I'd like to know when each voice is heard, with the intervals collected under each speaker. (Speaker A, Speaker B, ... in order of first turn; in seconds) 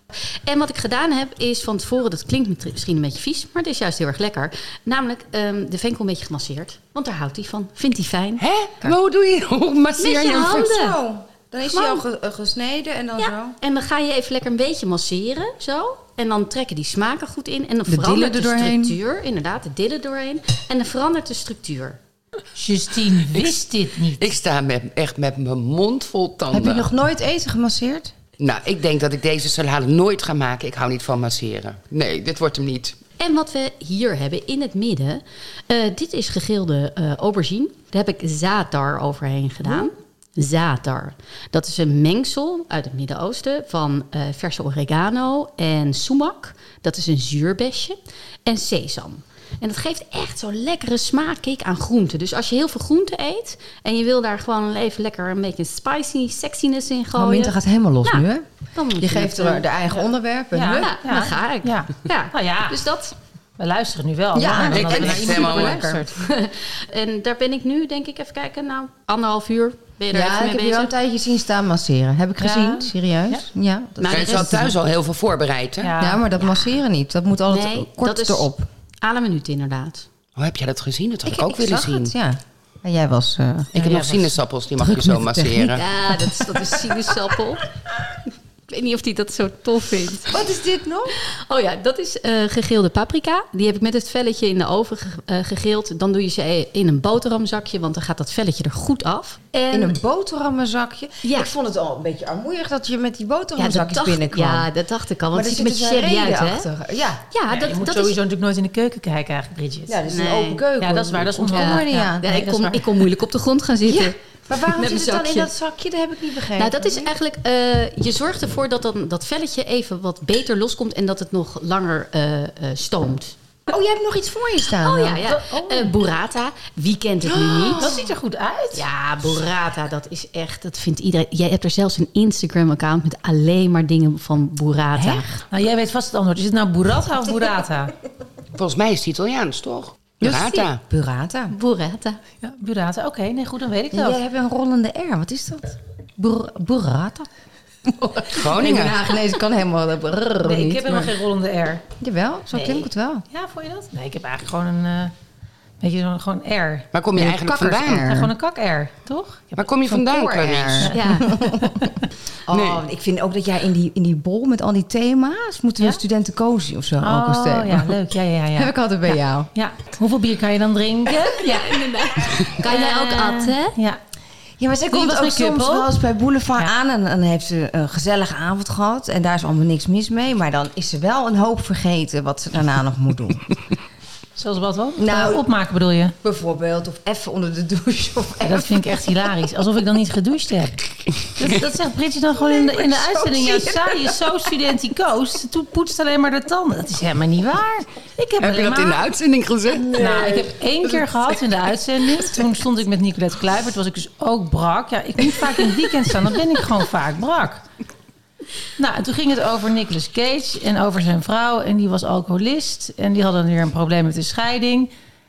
Speaker A: 0.4-8.9, 10.0-11.0, 11.6-12.0, 13.2-22.0, 33.2-59.7, 60.7-63.1, 66.1-70.9, 74.0-74.7, 76.4-76.7, 77.5-78.5, 79.0-80.1, 85.8-87.6, 88.7-90.4, 91.1-100.0, 101.2-101.5, 103.6-106.7, 107.3-108.2, 110.1-110.7, 111.5-115.5, 116.5-123.3, 124.7-128.0, 128.7-135.3, 141.5-142.2, 160.9-161.3, 171.3-173.8
Speaker B: 8.4-10.7, 24.2-26.9, 28.4-33.0, 64.7-65.9, 74.1-75.9, 80.4-82.1, 83.7-85.8, 138.6-140.8, 148.3-149.0, 156.9-158.1, 159.6-160.9, 162.5-162.8, 198.4-199.9
Speaker C: 10.2-13.6, 17.9-19.0, 26.5-28.1, 57.1-61.0, 64.3-66.1, 70.1-74.8, 76.0-78.7, 81.2-83.7, 84.8-87.2, 90.3-91.2, 99.7-104.7, 105.3-107.2, 109.9-112.4, 113.8-117.1, 123.7-125.3, 127.3-128.0, 134.9-135.4, 140.2-141.5, 143.9-147.3, 147.8-151.1, 152.0-153.2, 157.2-158.3, 159.8-168.0, 168.6-169.5, 174.6-183.4, 185.0-185.5, 186.2-189.1, 192.3-194.3, 199.8-200.6
Speaker D: 22.5-24.3, 60.5-62.8, 63.6-66.2, 72.4-73.4, 75.8-76.2, 83.8-84.4, 107.5-110.0, 110.8-113.0, 125.2-125.9, 127.8-128.8, 135.5-137.9, 142.4-144.2, 150.4-151.8, 152.5-155.1, 155.8-156.9, 158.0-159.7, 160.8-162.0, 167.0-171.8, 172.6-174.0, 174.9-175.9, 184.3-186.2, 188.4-199.0, 199.9-207.6, 208.8-214.9